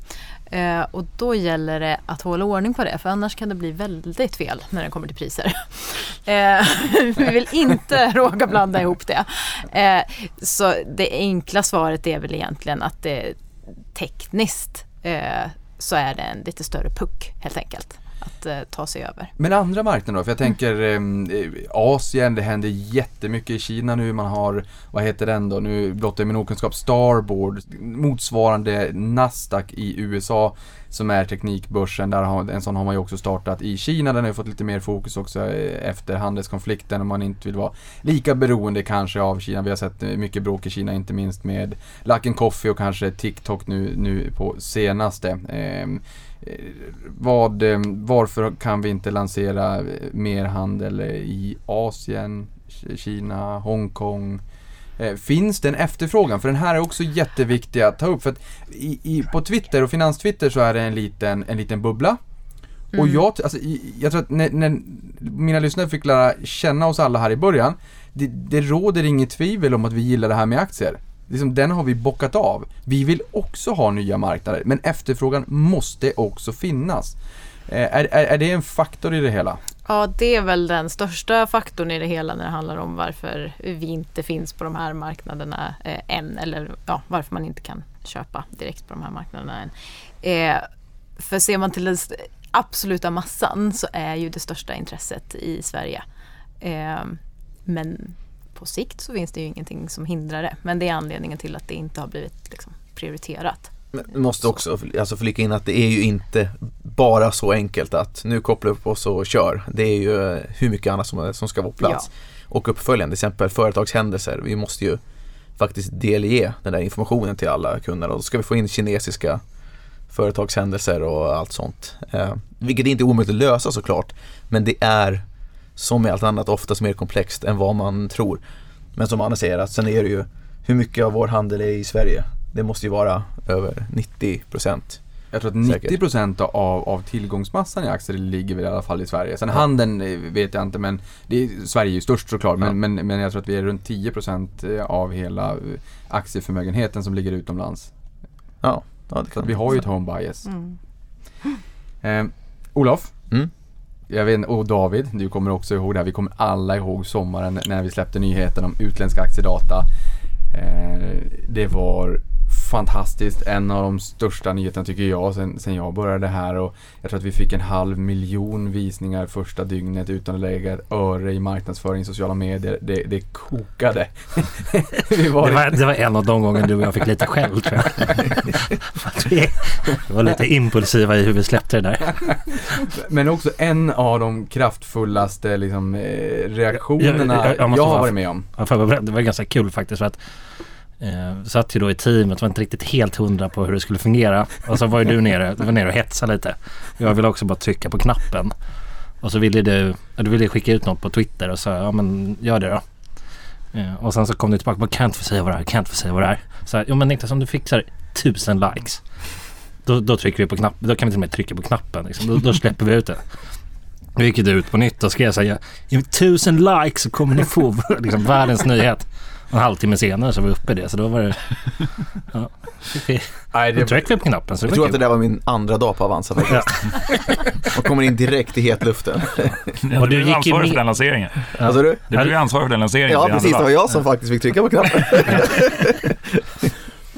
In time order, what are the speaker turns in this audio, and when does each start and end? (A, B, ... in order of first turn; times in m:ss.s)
0:00.5-0:13.4 A
0:13.9-0:19.3 A
0:19.4-0:54.4 B
0:55.0-1:02.2 B
1:02.9-1:17.2 B
1:02.9-1:03.2 A
1:17.7-1:19.6 B
1:19.8-1:36.0 A
1:36.6-1:43.7 A
1:43.9-1:55.0 C
1:55.6-1:59.4 C
2:00.1-2:05.2 C
2:05.8-2:08.4 C
2:09.0-2:15.0 C
2:15.3-2:27.9 B
2:15.6-2:16.0 C
2:28.6-2:29.5 C
2:29.3-2:30.5 B
2:30.5-2:30.8 A
2:32.0-2:33.1 B
2:34.1-2:39.9 B
2:40.5-2:55.8 B
2:55.4-3:02.3 D
3:02.8-3:08.4 B
3:07.0-3:10.2 D
3:11.0-3:18.5 D
3:19.2-3:22.8 D
3:23.7-3:29.0 D
3:29.8-3:33.2 D
3:34.2-3:45.0 D
3:43.5-3:44.0 B
3:44.6-3:46.9 C
3:46.5-3:47.6 D
3:47.6-3:49.6 C
3:49.8-3:53.7 E
3:49.9-3:50.8 D
3:51.6-3:52.3 D
3:51.6-3:52.1 C
3:53.1-3:56.7 C